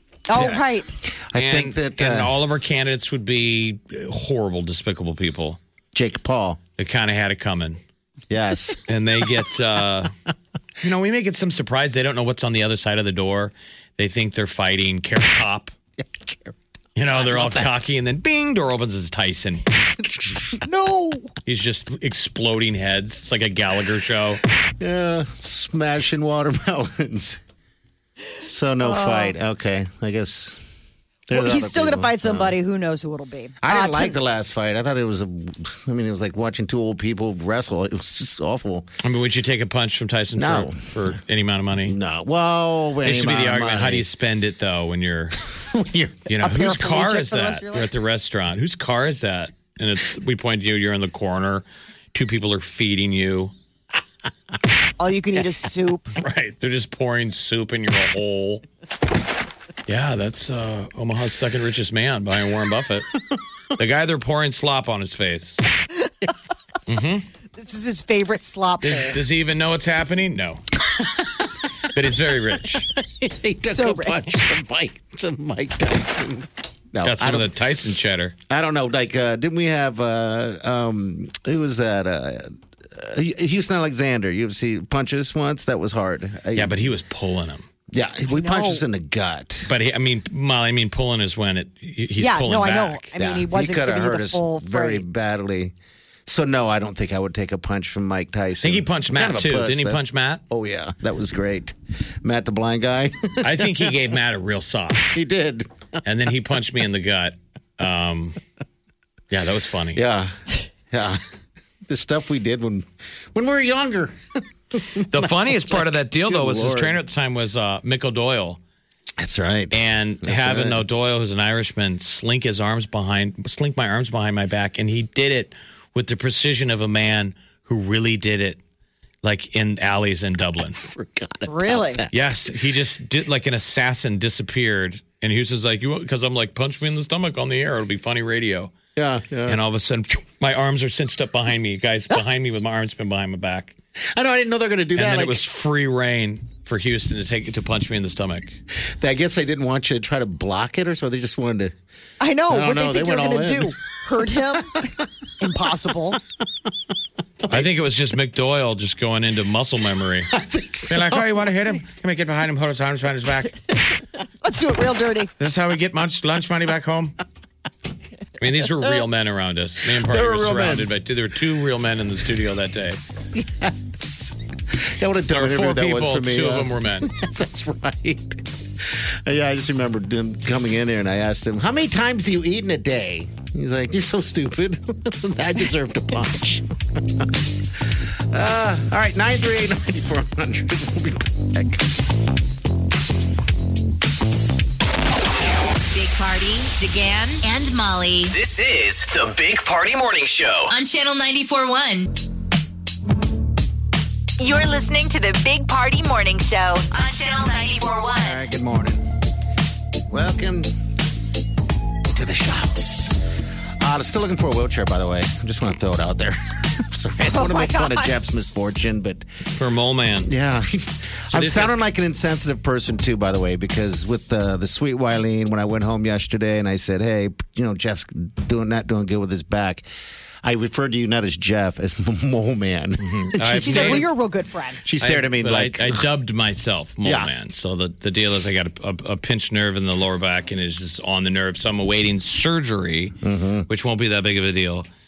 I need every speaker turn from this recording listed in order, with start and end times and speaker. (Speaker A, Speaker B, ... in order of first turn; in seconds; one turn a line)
Speaker A: 0.3-0.9
Speaker B: 0.3-2.3
Speaker C: 1.4-5.6
Speaker B: 5.9-6.6
Speaker C: 6.8-7.8
Speaker B: 8.3-8.8
Speaker C: 8.9-10.1
Speaker C: 10.8-15.7
Speaker B: 16.0-16.5
Speaker C: 16.9-19.8
Speaker B: 17.1-17.9
Speaker A: 20.6-21.3
Speaker C: 21.4-24.4
Speaker B: 24.8-27.4
Speaker B: 28.4-30.6
Speaker A: 28.8-29.3
Speaker B: 31.3-32.5
Speaker A: 31.3-34.2
Speaker B: 33.6-38.9
Speaker C: 39.0-42.0
Speaker B: 40.4-41.1
Speaker B: 41.8-44.0
Speaker C: 43.0-45.4
Speaker B: 45.5-46.3
Speaker C: 46.3-53.5
Speaker A: 46.4-47.9
Speaker A: 55.0-56.1
Speaker C: 56.1-58.6
Speaker C: 59.9-63.1
Speaker C: 63.8-65.7
Speaker C: 66.9-67.2
Speaker A: 67.6-69.2
Speaker C: 68.8-70.6
Speaker B: 70.9-71.5
Speaker C: 71.9-72.9
Speaker B: 72.9-77.5
Speaker A: 73.7-74.2
Speaker C: 77.0-78.3
Speaker B: 78.5-86.9
Speaker C: 86.5-87.7
Speaker B: 87.9-89.7
Speaker A: 88.3-88.8
Speaker C: 89.7-93.0
Speaker A: 92.2-95.0
Speaker B: 93.2-95.7
Speaker B: 96.2-103.9
Speaker C: 98.6-100.4
Speaker C: 103.4-105.1
Speaker B: 105.1-105.7
Speaker C: 106.0-108.4
Speaker C: 109.3-110.0
Speaker B: 109.9-111.2
Speaker B: 111.9-114.2
Speaker B: 114.7-117.0
Speaker C: 115.1-118.6
Speaker B: 119.2-120.8
Speaker C: 119.7-128.6
Speaker C: 129.2-130.8
Speaker B: 130.8-132.1
Speaker A: 131.5-132.1
Speaker C: 132.1-138.7
Speaker B: 138.9-139.6
Speaker C: 139.4-143.7
Speaker B: 144.1-145.5
Speaker C: 144.9-148.6
Speaker B: 149.0-151.7
Speaker A: 152.2-154.8
Speaker B: 152.5-153.8
Speaker A: 155.4-156.2
Speaker B: 157.4-157.7
Speaker C: 157.5-160.3
Speaker B: 160.3-161.5
Speaker C: 160.9-163.6
Speaker A: 164.4-165.3
Speaker C: 165.4-167.2
Speaker C: 168.4-173.0
Speaker B: 170.0-170.9
Speaker B: 173.3-191.9
Speaker C: 175.3-177.1
Speaker D: 195.9-198.3
Speaker E: 198.2-200.7
Speaker D: 200.7-202.1
Speaker D: 204.4-208.4
Speaker B: 208.2-209.1
Speaker B: 210.1-210.7
Speaker B: 212.1-213.1
Speaker B: 213.8-219.2
Speaker A: 217.2-218.1
Speaker C: 219.5-220.3
Speaker B: 220.2-229.8
Speaker C: 221.3-221.8
Speaker B: 230.4-234.1
Speaker C: 233.1-234.1
Speaker A: 233.6-234.8
Speaker B: 234.8-236.1
Speaker C: 235.0-243.2
Speaker B: 237.0-237.3
Speaker B: 243.2-243.7
Speaker C: 243.7-244.9